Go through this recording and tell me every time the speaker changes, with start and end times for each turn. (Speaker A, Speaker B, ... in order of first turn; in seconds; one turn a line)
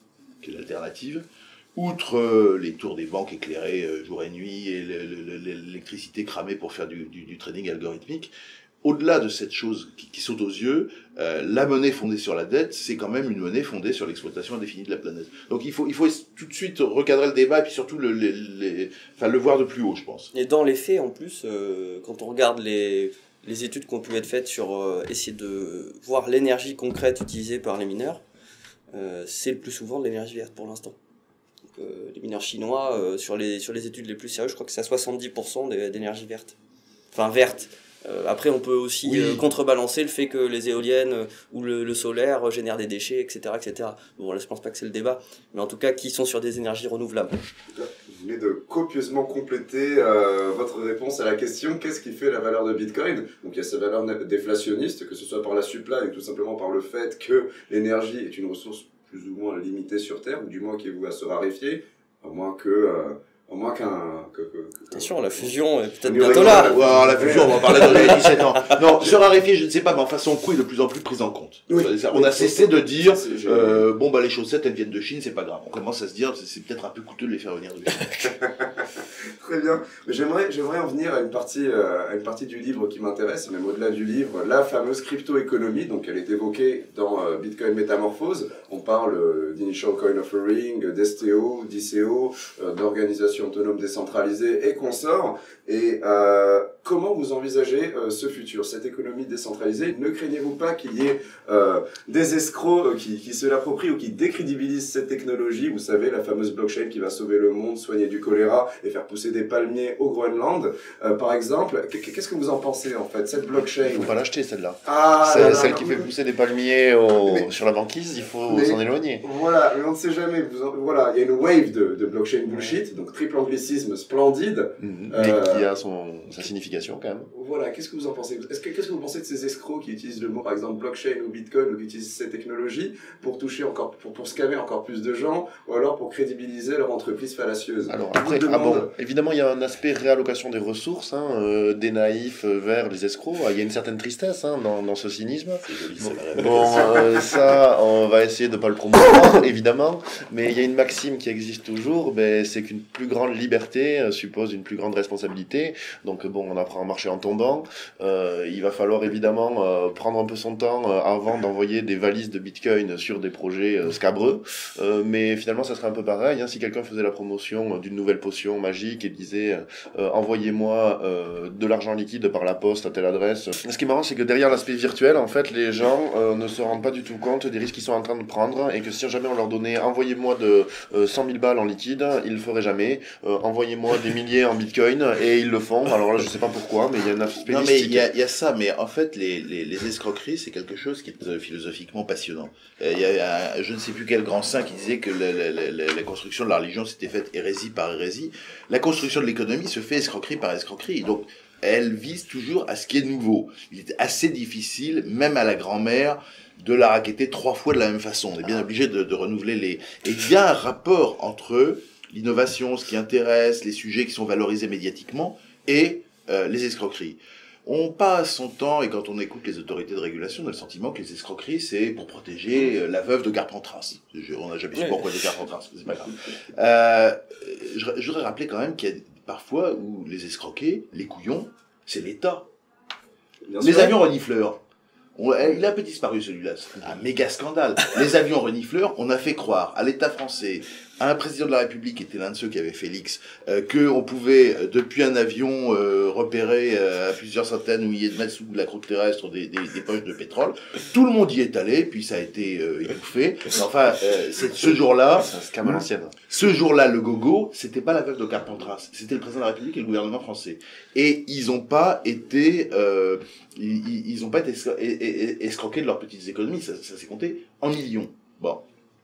Speaker A: 0.4-8.3
Speaker A: 8.8-20.3
Speaker B: 20.3-28.2
Speaker B: 28.9-30.9
Speaker B: 31.7-36.5
Speaker B: 37.1-47.4
Speaker A: 39.0-39.4
Speaker C: 47.7-65.5
Speaker B: 64.9-66.7
Speaker C: 66.0-69.2
Speaker A: 66.2-78.4
Speaker C: 71.7-73.8
Speaker C: 78.4-114.1
Speaker D: 113.8-119.2
Speaker C: 114.8-116.0
Speaker C: 118.5-125.7
Speaker D: 124.8-127.3
Speaker C: 127.3-138.9
Speaker D: 137.9-188.1
Speaker A: 145.7-147.2
Speaker A: 187.4-232.5
Speaker B: 224.8-225.0
Speaker C: 233.4-234.0
Speaker A: 233.6-234.6
Speaker A: 235.2-268.6
Speaker D: 255.1-256.1